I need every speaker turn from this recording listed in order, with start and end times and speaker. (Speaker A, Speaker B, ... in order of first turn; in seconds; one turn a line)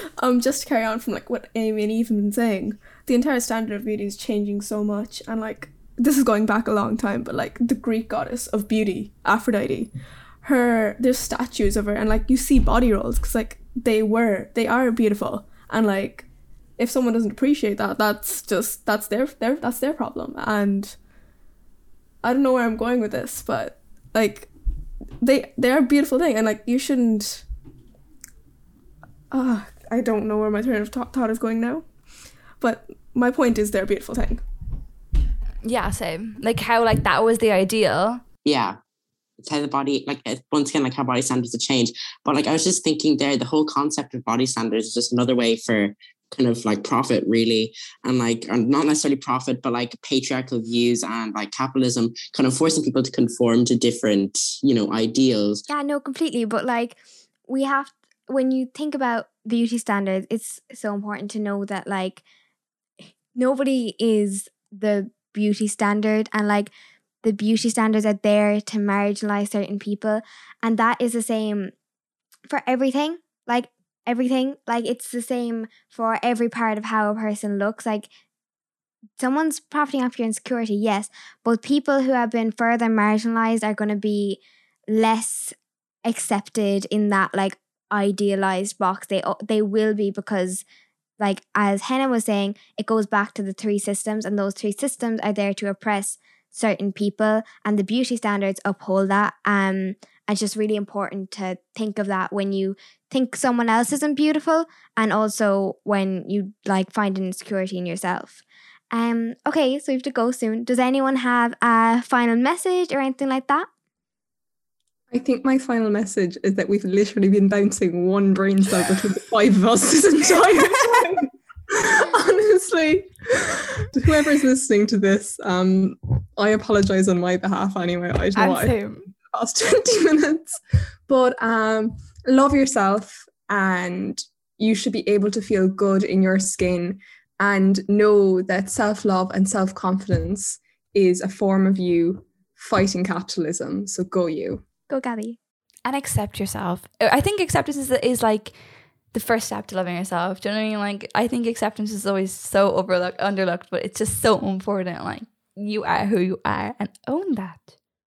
Speaker A: 0.2-21.0
Speaker A: 22.2-24.5
Speaker A: 25.2-27.5
Speaker A: 29.3-34.5
Speaker B: 35.6-38.2
Speaker C: 38.5-38.8
Speaker C: 39.4-55.6
Speaker D: 55.7-62.2
Speaker D: 63.4-66.7
Speaker D: 67.2-71.7
Speaker D: 72.5-78.1
Speaker D: 79.2-90.7
Speaker D: 91.2-113.7
Speaker E: 115.1-144.6
Speaker B: 128.3-129.1
Speaker D: 144.9-145.4
Speaker B: 145.9-148.5
Speaker B: 149.1-157.7